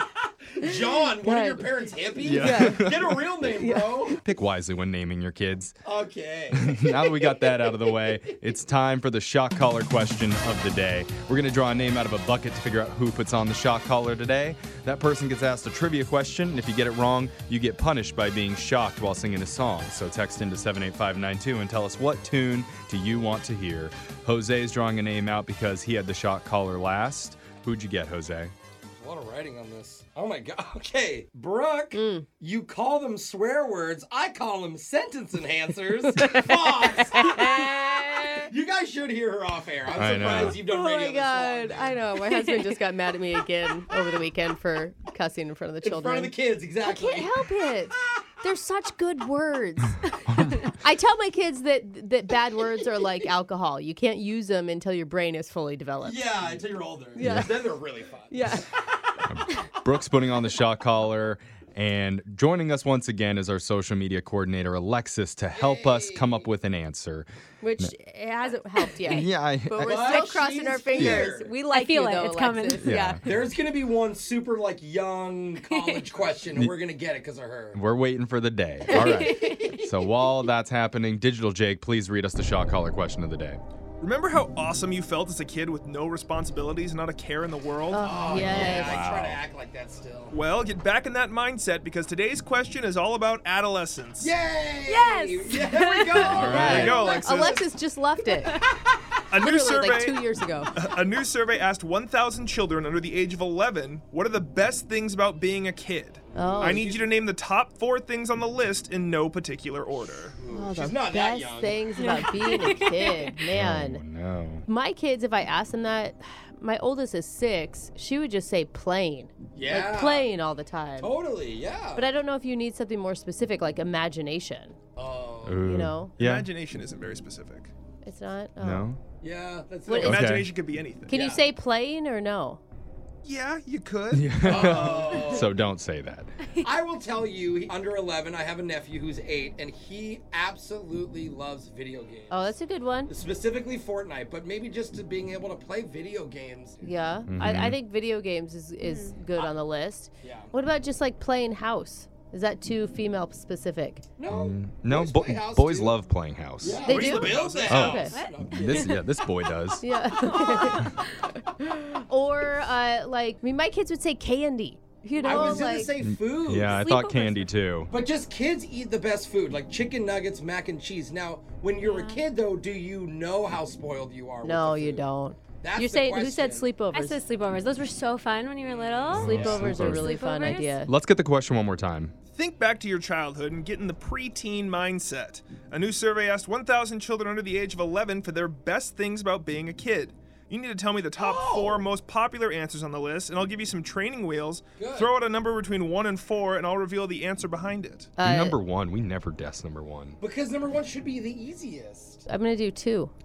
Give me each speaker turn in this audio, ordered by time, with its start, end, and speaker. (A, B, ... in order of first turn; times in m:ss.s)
0:00.6-0:04.2 A
0:00.6-0:01.7 B
0:02.2-0:03.2 C
0:02.3-0:02.8 B
0:03.6-0:04.1 B
0:04.2-0:05.8 C
0:05.8-0:07.0 A
0:06.5-0:28.5 C
0:29.0-0:37.6 A
0:31.9-0:32.3 B
0:36.1-0:38.5 B
0:38.4-0:41.9 A
0:40.0-0:40.6 C
0:40.2-0:50.0 B
0:45.8-0:47.3 A
0:50.3-0:50.7 C
0:50.8-0:56.5 B
0:56.0-0:58.6 A
0:57.2-0:58.7 B
0:57.2-0:57.5 C
0:59.2-1:07.3 C
1:05.5-1:06.5 A
1:07.6-1:13.2 B
1:09.0-1:10.4 C
1:09.8-1:11.5 A
1:11.0-1:11.3 C
1:11.6-1:13.0 D
1:12.8-1:13.2 C
1:13.2-1:17.8 A
1:17.7-1:23.6 C
1:18.9-1:19.3 B
1:24.0-1:28.7 E
1:27.9-1:29.1 B
1:28.0-1:30.3 A
1:28.5-1:29.4 C
1:30.3-1:34.3 E
1:34.2-1:37.6 A
1:34.9-1:36.2 D
1:35.0-1:38.6 B
1:36.2-1:37.1 C
1:36.6-1:37.6 E
1:39.3-1:40.2 E
1:39.4-1:40.7 B
1:40.8-1:50.4 E
1:46.4-1:46.9 B
1:46.4-1:47.0 A
1:50.4-1:51.9 A
1:50.5-1:54.0 B
1:51.9-1:53.4 D
1:53.5-1:54.7 C
1:54.7-2:01.1 B
1:59.5-2:00.3 A
2:01.0-2:02.1 A
2:02.0-2:04.8 B
2:05.0-2:05.7 A
2:05.4-2:06.5 C
2:05.6-2:06.1 B
2:06.2-2:07.7 E
2:08.0-2:08.9 B
2:08.6-2:09.0 C
2:09.2-2:10.3 A
2:09.9-2:10.3 B
2:10.0-2:11.1 E
2:10.0-2:10.5 C
2:11.1-2:12.6 B
2:11.1-2:11.4 A
2:13.2-2:15.4 E
2:14.1-2:16.3 C
2:14.4-2:15.5 A
2:16.6-2:22.6 A
2:22.3-2:23.1 B
2:23.1-2:26.9 A
2:26.8-2:34.1 B
2:27.3-2:27.8 C
2:28.8-2:29.1 D
2:30.2-2:30.5 A
2:34.2-2:36.0 A
2:34.3-2:36.8 C
2:36.6-2:39.0 A
2:36.8-2:38.1 B
2:36.8-2:37.9 E
2:37.7-2:39.8 C
2:38.1-2:38.7 D
2:39.8-2:40.9 B
2:40.1-2:40.9 D
2:41.6-2:45.9 B
2:45.2-2:45.6 D
2:45.2-2:46.9 A
2:46.0-2:47.9 C
2:46.7-2:47.4 B
2:47.9-2:55.1 A
2:51.8-2:52.2 D
2:54.4-2:57.2 B
2:55.6-2:56.7 A
2:56.9-3:00.8 D
2:59.0-2:59.6 A
2:59.1-3:00.2 C
2:59.1-3:00.9 B
3:00.8-3:02.1 C
3:02.3-3:18.1 E
3:11.2-3:11.8 A
3:14.8-3:15.1 A
3:18.2-3:18.6 B
3:18.2-3:20.2 C
3:20.2-3:22.2 A
3:22.3-3:23.1 B